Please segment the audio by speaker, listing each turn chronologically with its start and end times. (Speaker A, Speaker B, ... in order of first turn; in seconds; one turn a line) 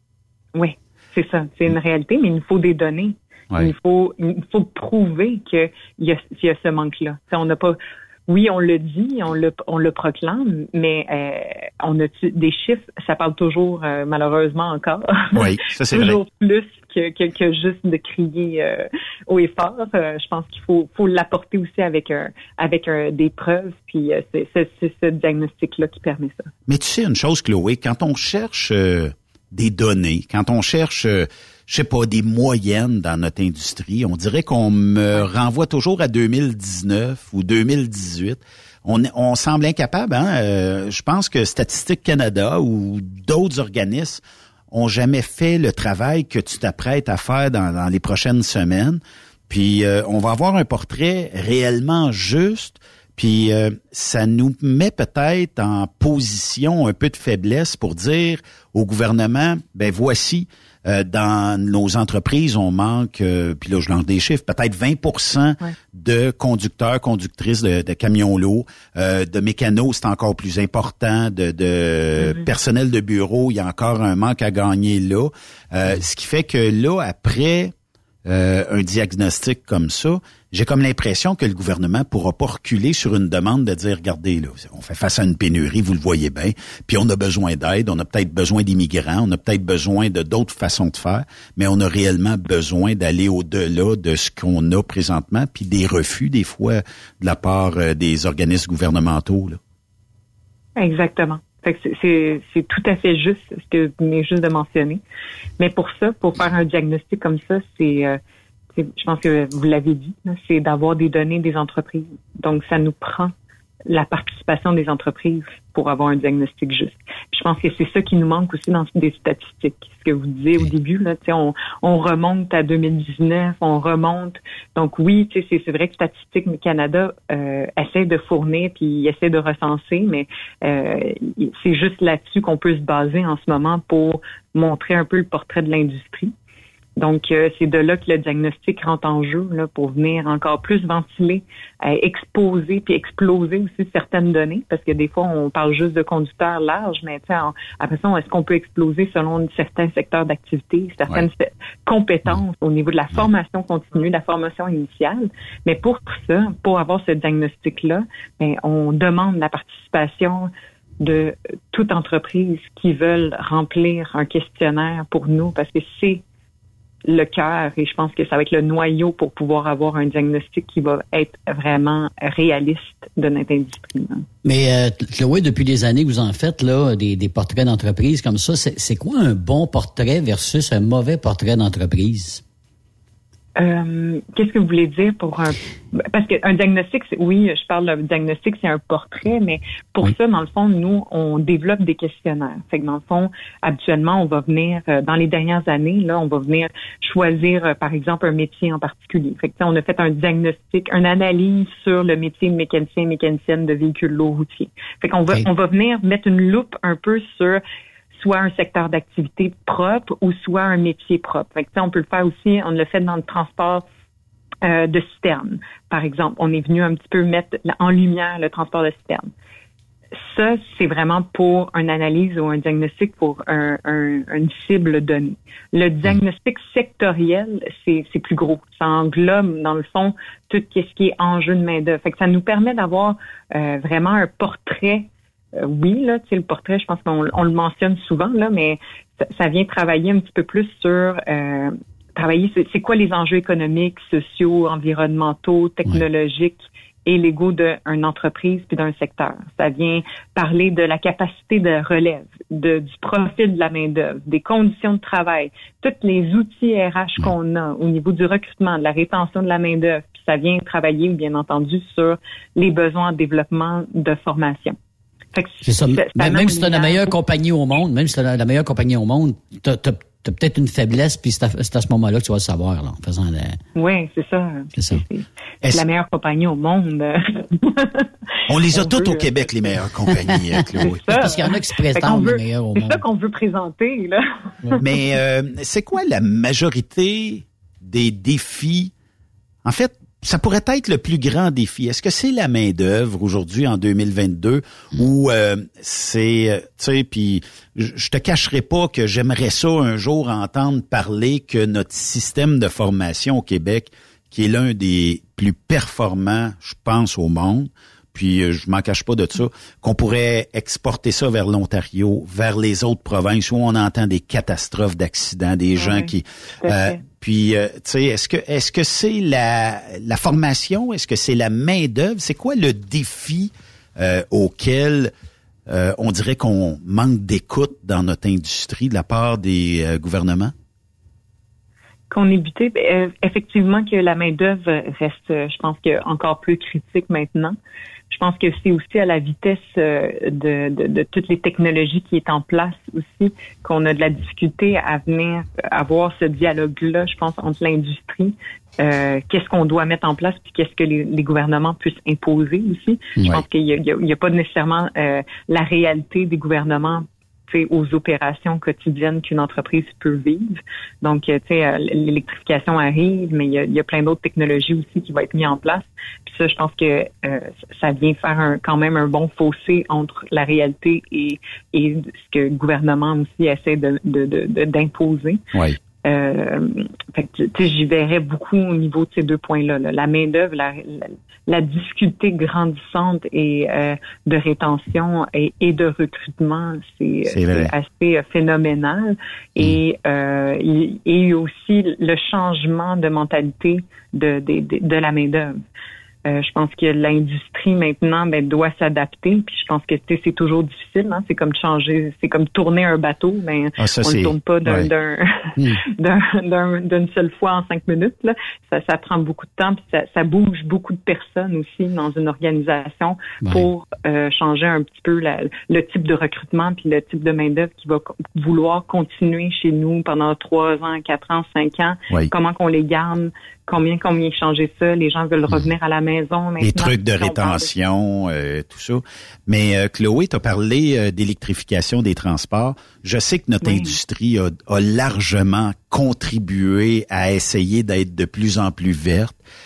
Speaker A: 0.6-26.5
Speaker B: 15.3-16.2
Speaker B: 26.7-77.7
Speaker A: 72.2-72.5
Speaker B: 78.3-99.6
Speaker A: 100.8-105.0
Speaker A: 105.6-108.2
Speaker A: 108.8-113.3
Speaker A: 113.9-136.3
Speaker A: 137.0-166.2
Speaker A: 167.1-174.3
Speaker C: 174.4-182.4
Speaker A: 183.6-207.6
Speaker A: 208.2-213.9
Speaker A: 214.6-219.3
Speaker A: 220.2-264.8
Speaker A: 265.3-267.1
Speaker C: 265.6-273.6
Speaker A: 273.8-279.5
Speaker C: 274.8-275.0
Speaker B: 278.5-281.0
Speaker C: 280.2-283.0
Speaker A: 280.8-284.9
Speaker B: 284.8-288.9
Speaker B: 289.6-325.1
Speaker A: 315.8-316.1
Speaker A: 316.6-317.0
Speaker B: 325.7-330.5
Speaker A: 332.1-337.6
Speaker A: 338.1-375.4
Speaker A: 376.0-395.6
Speaker B: 387.3-387.7
Speaker A: 396.3-427.7
Speaker B: 403.8-404.9
Speaker B: 426.6-439.4
Speaker A: 433.6-434.0